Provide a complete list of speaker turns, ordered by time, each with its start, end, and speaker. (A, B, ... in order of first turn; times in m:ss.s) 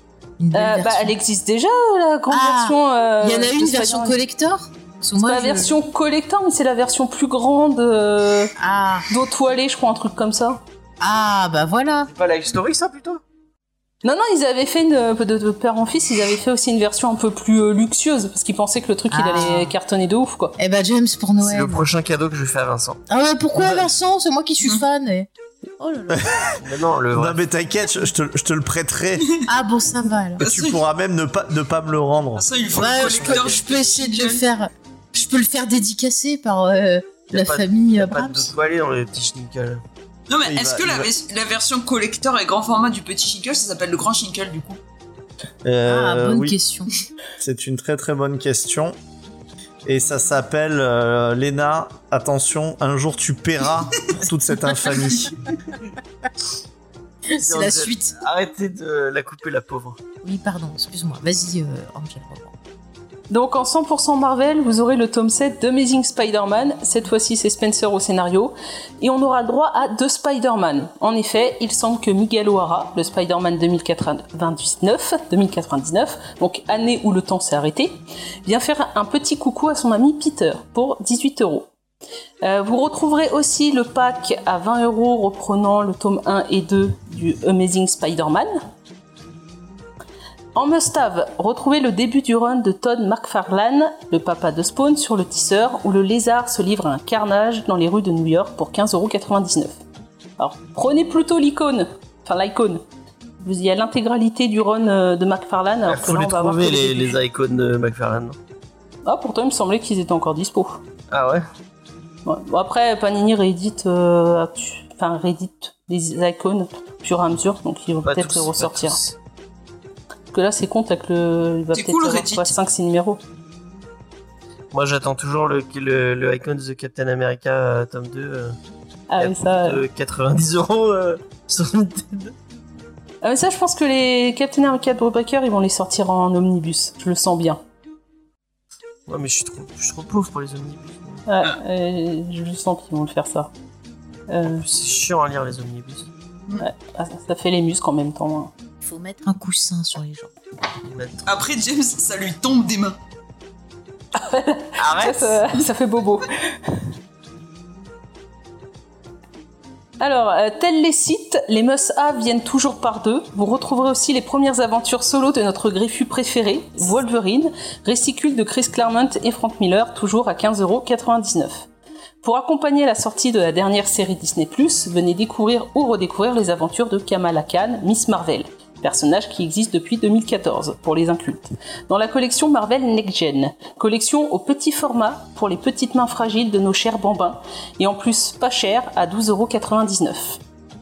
0:00.4-0:01.1 A
0:00.5-0:04.2 B
0:02.3-0:05.8 A
0:05.2-0:08.5 B
0:08.6-0:09.1 A
0:09.1-0:10.6 B
0:11.0-0:12.1 A
0:12.1-0:13.2 C
0:14.0-0:20.6 B
0:19.1-0:19.8 A
0:20.6-0:21.9 A
0:21.4-0:23.0 C
0:23.1-0:26.2 A
0:23.6-0:23.9 C
0:26.1-0:26.6 D
0:26.6-0:27.4 C
0:27.1-0:29.3 D
0:29.5-0:30.4 A
0:30.4-0:30.8 E
0:30.4-0:32.5 D
0:32.4-0:34.4 E
0:32.8-0:38.5 A
0:33.0-0:33.6 C
0:37.3-0:39.8 C
0:40.3-0:44.8 E
0:40.4-0:41.1 D
0:45.6-0:46.6 D
0:45.9-0:46.9 A
0:47.4-0:49.0 D
0:49.8-0:55.4 D
0:57.3-0:58.2 A
0:57.4-1:00.0 C
1:00.2-1:02.5 A
1:03.3-1:21.7 B
1:22.4-1:28.6 B
1:30.5-1:39.8 B
1:40.4-1:42.8 B
1:43.4-1:47.2 B
1:45.8-1:48.4 C
1:49.0-1:50.8 B
1:51.1-1:51.4 C
1:52.2-1:59.0 B
1:58.0-1:59.1 C
2:00.3-2:03.2 B
2:01.7-2:02.5 E
2:04.7-2:08.6 C
2:09.1-2:09.8 B
2:09.2-2:12.3 C
2:13.2-2:17.6 B
2:19.1-2:21.2 C
2:21.3-2:23.5 B
2:24.3-2:24.6 B
2:24.4-2:26.1 C
2:26.6-2:28.5 B
2:28.8-2:30.3 A
2:30.8-2:31.3 C
2:31.2-2:33.0 E
2:34.1-2:36.9 B
2:34.8-2:35.4 C
2:40.0-2:51.7 B
2:52.2-3:10.4 B